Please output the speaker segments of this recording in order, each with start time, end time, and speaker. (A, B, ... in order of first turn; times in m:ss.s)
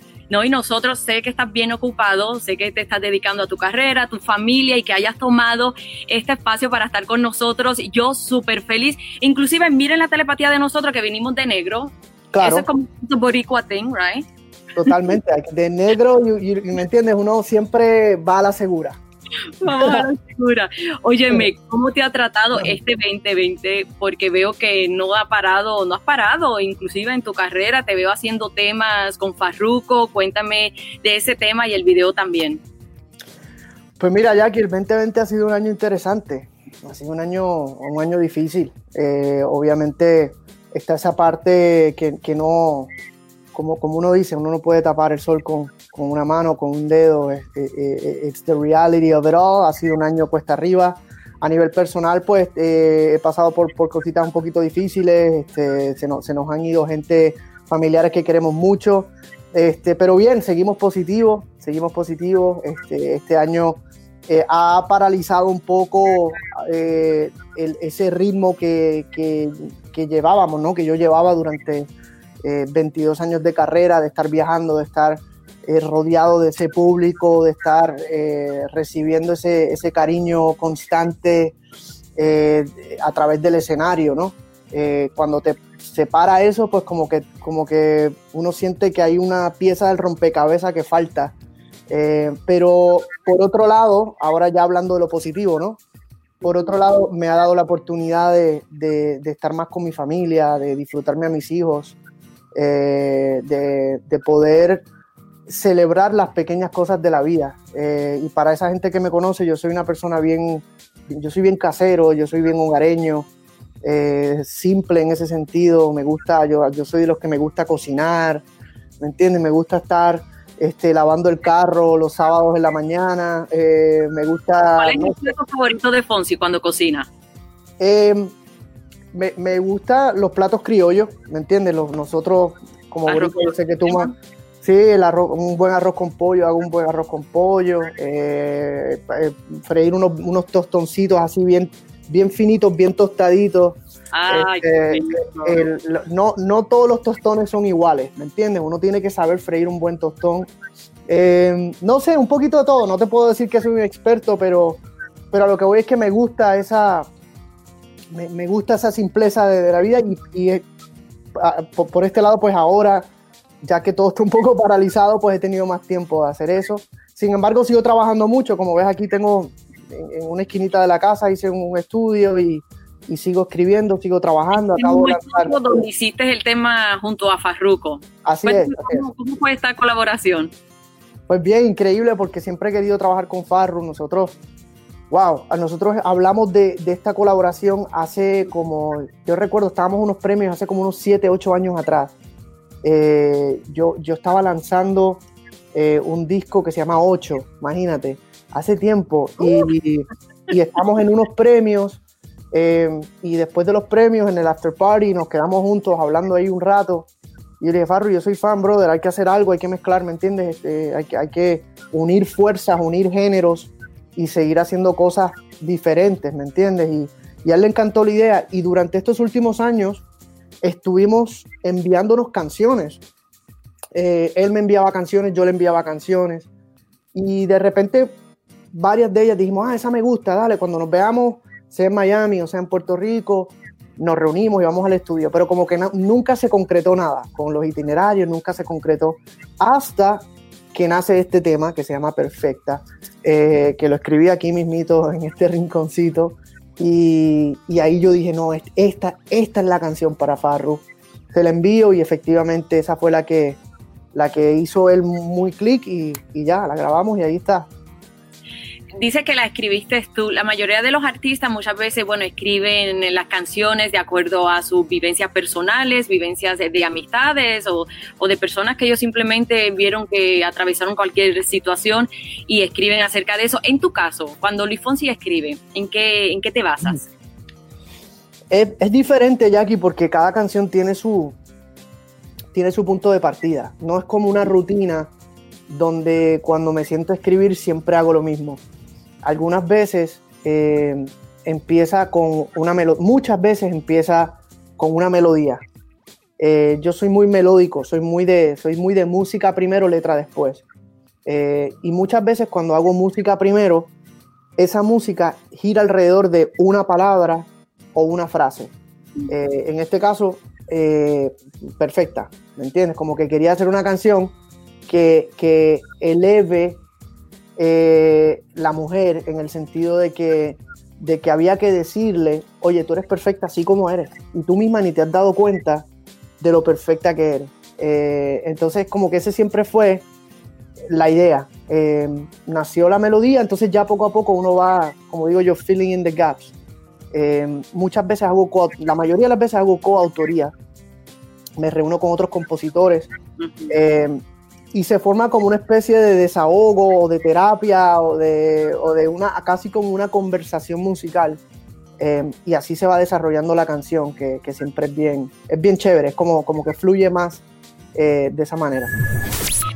0:00.3-0:14.2 A
0:12.3-0:12.7 B
0:14.8-0:19.0 B
0:19.6-0:32.6 A
0:19.6-0:20.0 B
0:34.0-0:42.9 B
0:43.5-1:11.9 B
1:12.4-1:21.6 B
1:22.2-1:31.4 B
1:31.9-1:35.8 B
1:36.4-1:42.0 B
1:42.6-1:44.9 B
1:45.5-1:53.3 B
1:53.8-1:58.4 B
1:59.0-2:05.4 B
2:04.8-2:07.1 A
2:07.8-2:08.3 B
2:09.1-2:30.5 B
2:13.1-2:14.1 A
2:24.1-2:25.6 A
2:31.1-2:37.1 B
2:38.1-2:40.6 B
2:41.4-2:43.1 B
2:43.6-2:55.8 B
2:54.7-3:00.5 A
2:58.2-2:59.1 B
3:01.3-3:04.4 B
3:05.1-3:12.1 B
3:12.8-3:15.2 B
3:15.7-3:22.0 B
3:22.5-3:27.1 B
3:27.6-3:40.0 B
3:40.6-3:43.0 B
3:43.9-3:46.5 B
3:47.1-3:48.2 B
3:48.7-4:13.6 B
4:14.1-4:17.7 B
4:19.0-4:37.0 A
4:38.5-4:41.4 B
4:42.5-4:45.1 B
4:45.7-4:48.6 B
4:49.2-4:55.6 B
4:56.4-5:00.6 B
5:01.2-5:03.9 B
5:04.6-5:08.7 B
5:09.3-5:14.4 B
5:14.9-5:16.8 B
5:17.6-5:25.9 B
5:26.4-5:30.0 B
5:30.9-5:36.5 B
5:37.1-5:40.5 B
5:41.6-5:43.1 B
5:43.4-5:43.7 A
5:43.7-5:44.2 B
5:44.7-5:51.4 B
5:52.0-5:57.4 B
5:57.9-5:58.9 B